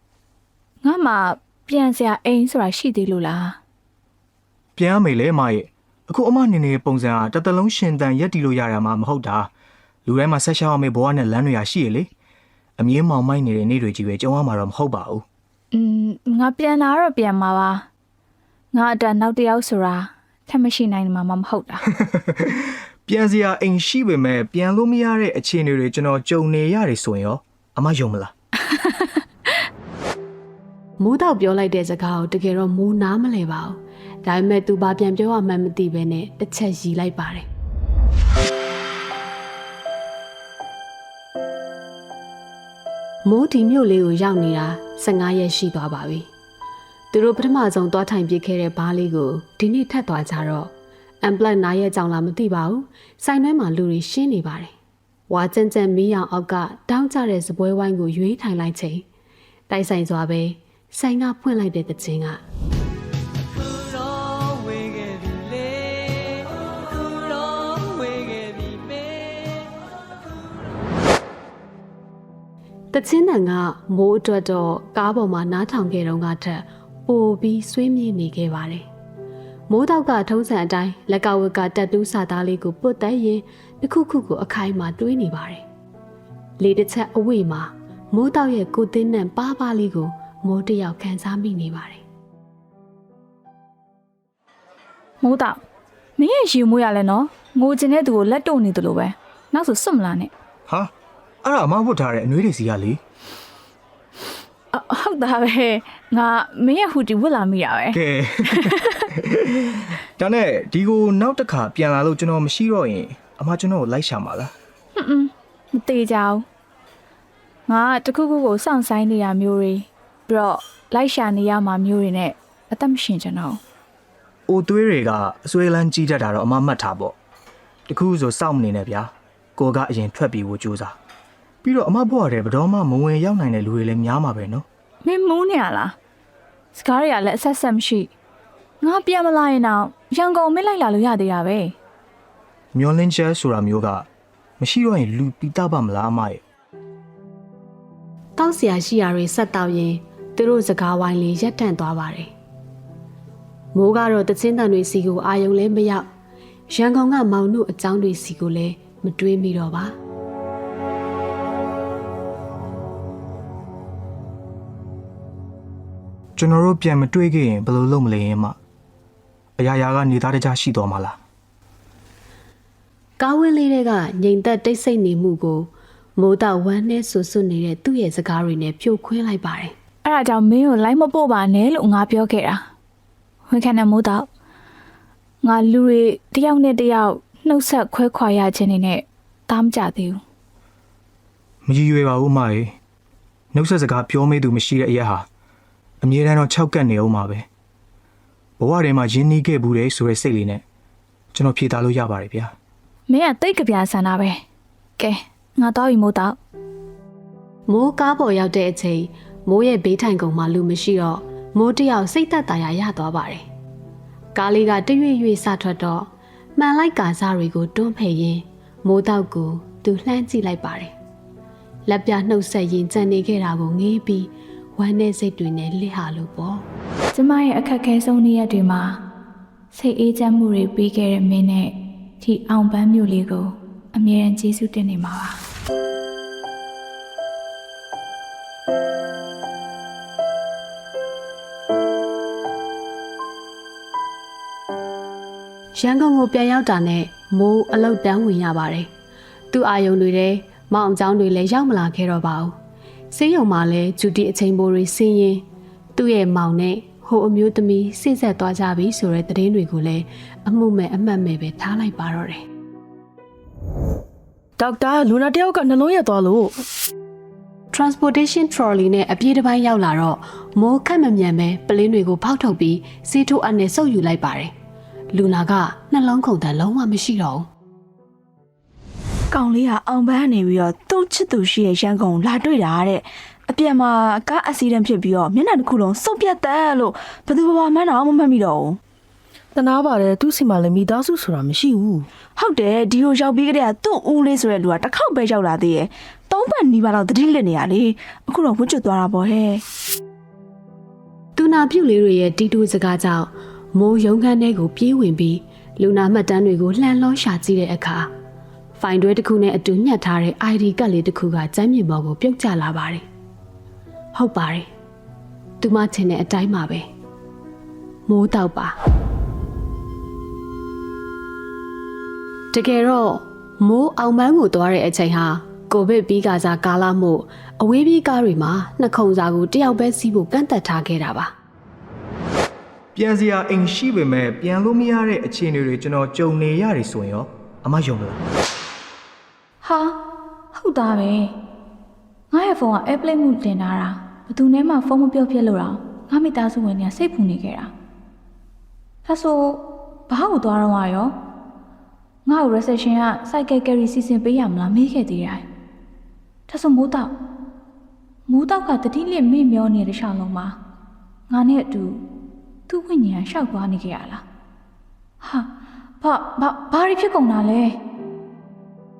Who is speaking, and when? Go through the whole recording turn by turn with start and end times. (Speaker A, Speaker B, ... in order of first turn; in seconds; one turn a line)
Speaker A: 0.8-3.6
Speaker B: 4.8-9.5
Speaker B: 10.1-12.1
Speaker B: 12.8-15.2
Speaker A: 15.7-17.9
Speaker A: 18.7-21.8
Speaker B: 22.0-28.3
Speaker A: 28.7-29.2
Speaker C: 31.0-37.5
Speaker C: 43.2-46.3
Speaker C: 47.1-50.7
Speaker C: 51.2-54.7
Speaker C: 55.3-59.0
Speaker C: 59.7-62.4
Speaker C: 72.9-78.8
Speaker C: 79.7-85.6
Speaker C: 86.6-92.0
Speaker A: 95.2-95.6
Speaker A: 96.2-100.3
Speaker B: 101.4-103.0
Speaker A: 104.7-109.1
Speaker B: 107.9-114.5
Speaker A: 115.0-116.4
Speaker A: 117.7-123.6
Speaker B: 124.5-127.2
Speaker B: 127.9-130.9
Speaker B: 131.6-134.7
Speaker A: 135.0-135.9
Speaker A: 136.7-138.1
Speaker A: 138.8-141.8
Speaker B: 142.7-144.1
Speaker B: 144.6-146.4
Speaker C: 148.4-152.3
Speaker C: 153.7-156.1
Speaker C: 156.7-159.9
Speaker B: 166.4-168.6
Speaker B: 169.6-171.2
Speaker C: 173.2-179.7
Speaker A: 180.0-182.6
Speaker A: 183.5-184.3
Speaker A: 185.4-190.2
Speaker B: 191.6-192.8
Speaker B: 193.5-195.3
Speaker B: 196.0-197.5
Speaker B: 198.6-200.6
Speaker B: 201.3-202.5
Speaker A: 203.1-204.4
Speaker A: 205.0-206.4
Speaker C: 207.7-213.4
Speaker C: 214.3-220.9
Speaker C: 221.9-226.6
Speaker A: 227.1-229.0
Speaker A: 229.7-235.4
Speaker C: 245.7-248.9
Speaker C: 249.5-252.5
Speaker C: 253.1-255.4
Speaker C: 255.9-262.4
Speaker D: 264.6-266.6
Speaker C: 267.7-274.5
Speaker C: 275.1-277.5
Speaker E: 279.3-288.8
Speaker D: 289.5-292.1
Speaker E: 292.4-299.6
Speaker C: 301.4-308.1
Speaker C: 308.8-313.0
Speaker C: 314.1-314.7
Speaker C: 315.6-316.8
Speaker C: 318.1-318.8
Speaker C: 322.5-331.3
Speaker B: 332.9-338.2
Speaker A: 339.6-340.0
Speaker A: 340.5-341.4
Speaker A: 342.3-347.7
Speaker A: 349.0-351.1
Speaker A: 352.2-355.4
Speaker A: 356.5-357.1
Speaker A: 358.3-360.6
Speaker A: 361.3-362.0
Speaker A: 362.7-364.2
Speaker A: 365.2-365.5
Speaker A: 366.0-367.8